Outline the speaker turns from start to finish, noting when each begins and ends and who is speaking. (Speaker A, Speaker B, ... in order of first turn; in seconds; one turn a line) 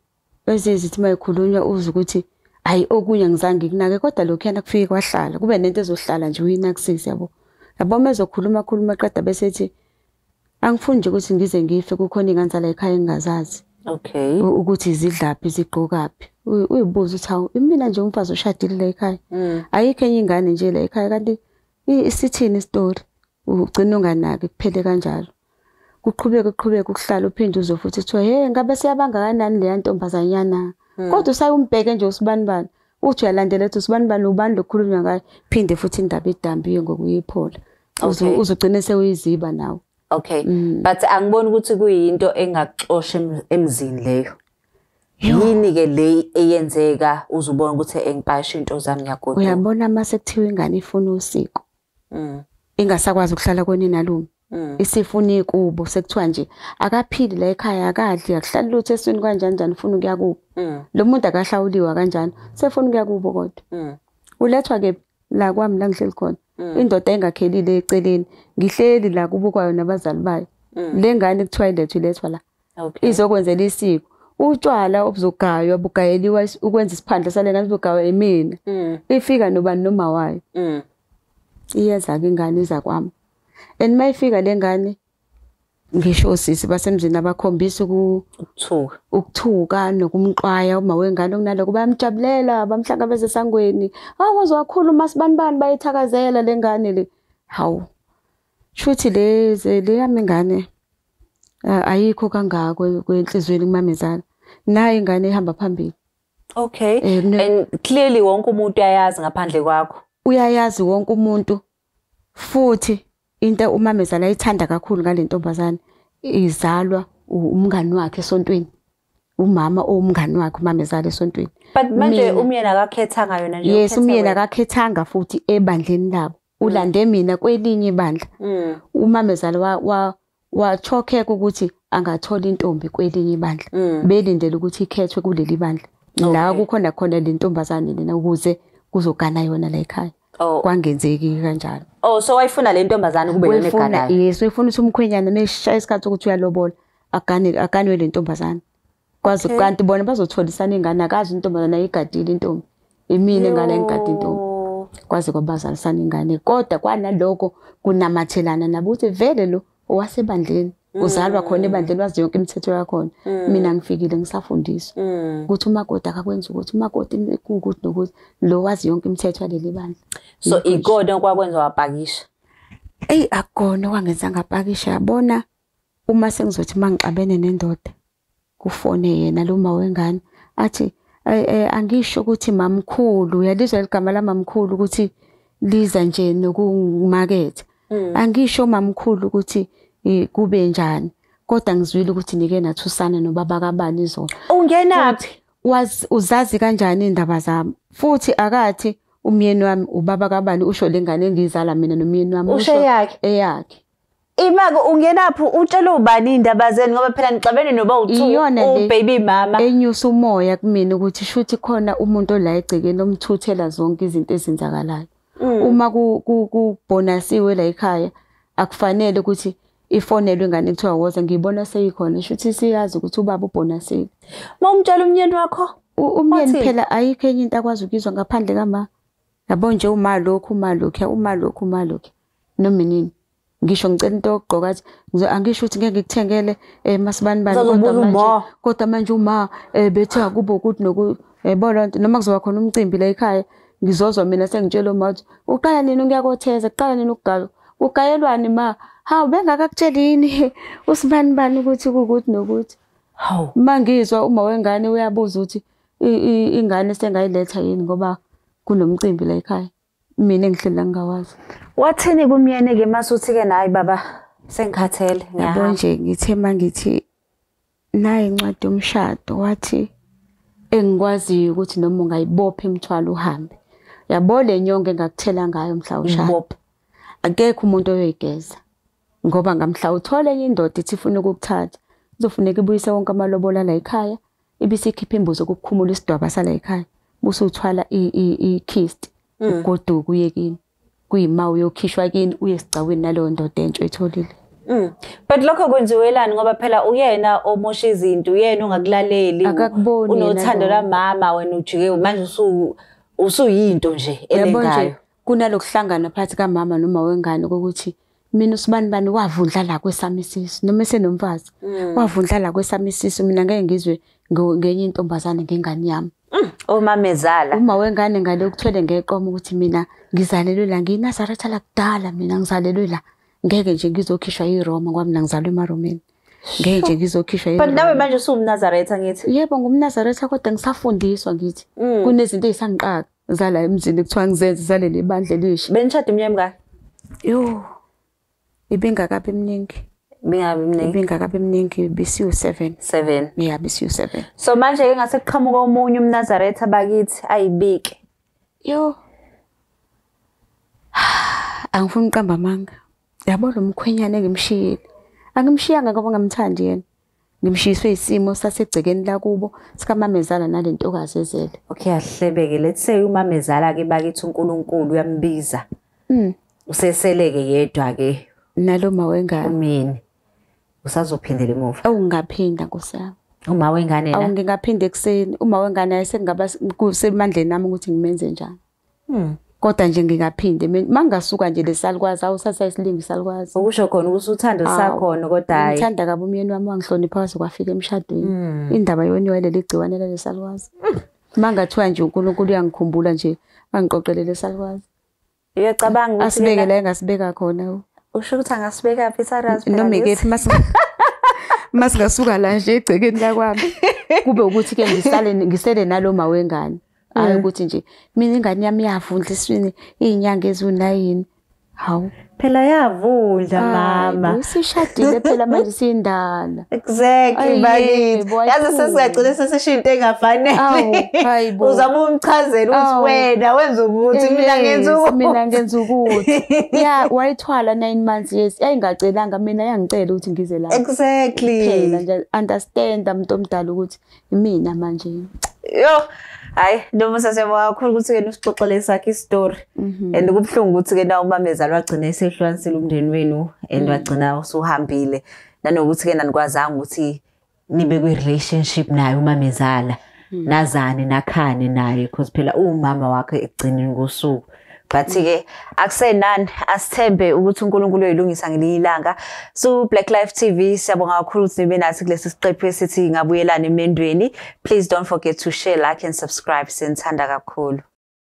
Speaker A: 0.5-9.7
Speaker A: 10.6-13.6
Speaker B: 13.9-14.4
Speaker A: 14.4-19.2
Speaker B: 19.3-19.6
Speaker A: 19.7-25.3
Speaker A: 26.0-39.8
Speaker B: 31.0-31.3
Speaker B: 38.0-38.4
Speaker B: 40.1-44.3
Speaker A: 40.4-40.9
Speaker A: 45.2-45.5
Speaker B: 45.2-49.6
Speaker A: 49.3-51.6
Speaker B: 52.1-52.4
Speaker A: 52.8-60.4
Speaker B: 54.5-54.8
Speaker B: 60.6-60.9
Speaker A: 60.9-63.6
Speaker B: 63.7-64.0
Speaker A: 64.4-72.4
Speaker B: 72.8-73.2
Speaker A: 73.0-80.4
Speaker B: 78.7-79.0
Speaker B: 80.5-80.8
Speaker A: 81.7-83.1
Speaker A: 83.8-85.0
Speaker A: 86.0-88.2
Speaker B: 88.5-89.0
Speaker A: 89.1-97.9
Speaker A: 98.8-100.7
Speaker A: 101.7-105.9
Speaker B: 106.5-110.0
Speaker A: 107.0-107.5
Speaker A: 110.2-111.6
Speaker A: 112.3-118.7
Speaker A: 119.4-122.5
Speaker B: 121.7-124.4
Speaker A: 123.6-128.3
Speaker B: 128.4-128.8
Speaker A: 128.9-141.9
Speaker B: 133.7-134.0
Speaker B: 136.2-136.6
Speaker B: 140.4-140.6
Speaker B: 142.0-144.1
Speaker A: 143.4-148.6
Speaker B: 149.2-149.7
Speaker A: 149.2-154.4
Speaker B: 153.3-154.9
Speaker A: 155.1-164.9
Speaker B: 160.9-161.9
Speaker B: 163.2-163.7
Speaker B: 165.0-165.5
Speaker A: 165.5-170.9
Speaker B: 170.4-172.2
Speaker A: 173.1-175.4
Speaker A: 176.1-177.9
Speaker A: 178.6-185.1
Speaker A: 185.6-194.3
Speaker B: 187.9-188.2
Speaker B: 194.5-195.3
Speaker A: 194.9-203.8
Speaker B: 202.5-203.2
Speaker B: 204.4-209.6
Speaker A: 208.1-208.9
Speaker A: 209.6-224.1
Speaker B: 215.4-215.8
Speaker B: 224.6-225.7
Speaker A: 226.0-228.9
Speaker B: 226.3-226.7
Speaker A: 229.5-252.8
Speaker B: 237.5-238.5
Speaker B: 253.2-253.5
Speaker A: 253.5-261.4
Speaker B: 261.8-265.8
Speaker A: 265.4-267.0
Speaker A: 267.9-269.9
Speaker A: 270.7-273.6
Speaker A: 274.1-276.4
Speaker B: 276.0-276.6
Speaker A: 277.2-278.6
Speaker A: 279.2-290.6
Speaker B: 289.4-289.6
Speaker A: 291.1-294.3
Speaker B: 294.7-304.9
Speaker A: 299.4-300.9
Speaker A: 304.3-316.1
Speaker B: 311.6-312.1
Speaker B: 316.3-317.6
Speaker A: 317.5-326.0
Speaker B: 326.5-326.9
Speaker A: 326.6-328.1
Speaker B: 327.6-329.3
Speaker A: 329.2-335.7
Speaker B: 331.8-332.1
Speaker B: 335.7-336.6
Speaker A: 337.2-337.7
Speaker A: 338.7-339.8
Speaker B: 340.2-341.0
Speaker A: 340.8-342.8
Speaker B: 342.8-343.3
Speaker A: 343.4-344.3
Speaker B: 344.4-348.0
Speaker A: 348.6-349.0
Speaker A: 350.9-352.7
Speaker A: 353.3-354.8
Speaker A: 355.4-356.8
Speaker A: 357.4-361.6
Speaker B: 361.7-365.6
Speaker A: 366.1-366.3
Speaker B: 366.7-368.2
Speaker A: 368.6-369.5
Speaker B: 369.4-370.0
Speaker B: 370.8-371.8
Speaker A: 371.8-373.1
Speaker B: 373.5-374.3
Speaker A: 374.1-378.6
Speaker B: 379.1-379.4
Speaker A: 379.6-383.6
Speaker B: 383.5-385.9
Speaker A: 384.6-390.7
Speaker B: 388.2-388.7
Speaker A: 391.4-394.9
Speaker B: 395.6-396.7
Speaker A: 396.2-397.8
Speaker B: 398.1-401.3
Speaker A: 399.5-400.7
Speaker A: 401.7-411.2
Speaker B: 403.8-404.2
Speaker B: 404.8-405.1
Speaker B: 407.1-407.4
Speaker A: 411.8-412.1
Speaker B: 412.4-414.4
Speaker A: 413.6-416.7
Speaker B: 414.9-415.6
Speaker B: 416.7-425.4
Speaker A: 417.3-419.3
Speaker A: 420.6-421.9
Speaker A: 422.7-423.3
Speaker A: 424.1-430.8
Speaker B: 426.1-426.9
Speaker B: 430.7-432.0
Speaker A: 431.4-435.3
Speaker B: 435.6-447.2
Speaker A: 439.8-440.3
Speaker A: 443.8-444.1
Speaker B: 447.7-467.8